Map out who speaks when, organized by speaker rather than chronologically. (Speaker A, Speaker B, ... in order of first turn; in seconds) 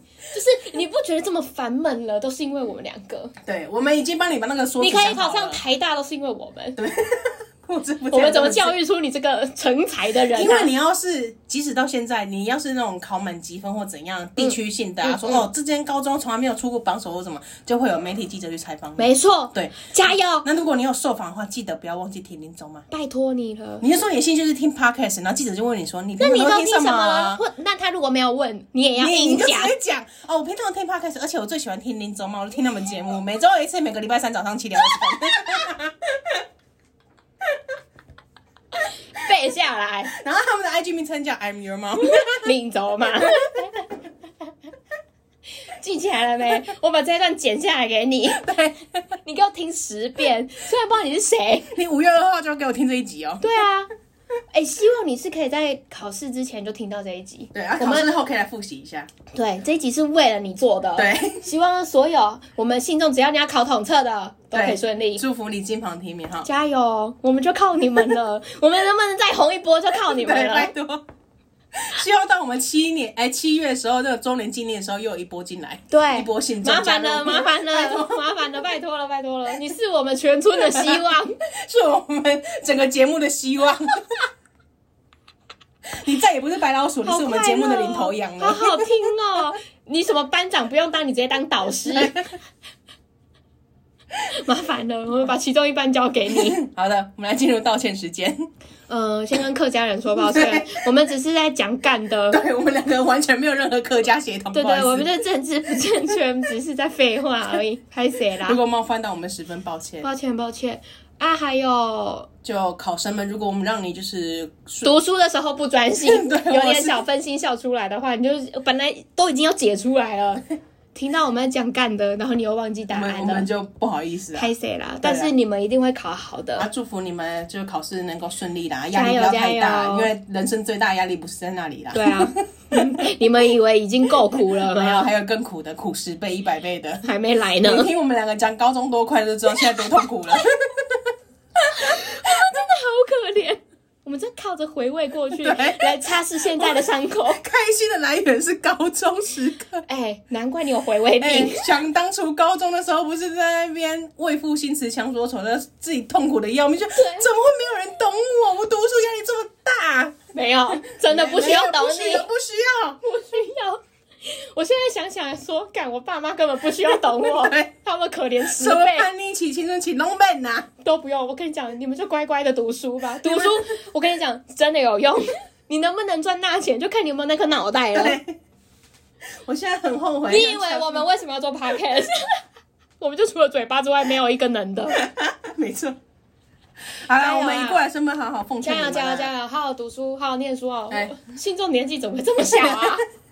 Speaker A: 0.3-3.3, 4.8-6.8, 8.1-10.7, 14.4-15.5, 19.0-20.5, 22.9-23.8, 26.2-29.7, 35.0-35.6, 39.1-40.1, 42.1-43.9, 45.7-48.5, 49.2-51.7, 53.4-53.9, 54.5-58.1, 59.3-65.2, 66.5-70.7, 75.9-81.3, 87.0-92.2, 94.3-96.6, 98.9-102.4, 104.5-108.6, 110.0-112.3, 114.8-123.5, 124.3-126.7, 128.9-130.1, 131.9-135.1, 137.0-137.9, 139.6-140.4, 141.6-147.4, 149.9-151.7, 156.9-157.3, 160.3-162.3, 163.0-169.1, 170.8-178.2, 180.3-182.4, 183.0-185.0, 187.2-187.8, 188.6-193.0
Speaker B: 3.4-5.6, 6.8-8.8, 10.3-19.9, 20.4-22.9, 23.8-27.4, 28.9-36.4, 40.1-42.5, 43.2-43.5, 48.3-48.8, 51.7-53.6, 57.5-59.1, 61.0-61.5, 64.5-66.5, 70.0-71.0, 71.7-78.4, 80.7-84.2, 86.0-88.9, 92.0-92.2, 96.3-98.4, 100.3-100.8, 102.3-105.1, 108.4-110.1, 112.4-114.9, 116.0-117.0, 122.9-124.5, 125.0-125.3, 126.6-133.1, 134.4-137.1, 137.6-141.1, 145.3-146.8, 147.3-149.8, 151.2-160.2, 161.1-163.0, 166.9-167.7, 168.5-170.7, 173.2-173.6, 177.9-178.3, 179.4-181.1, 184.9-186.0, 186.9-189.3, 190.9-191.2, 192.5-193.0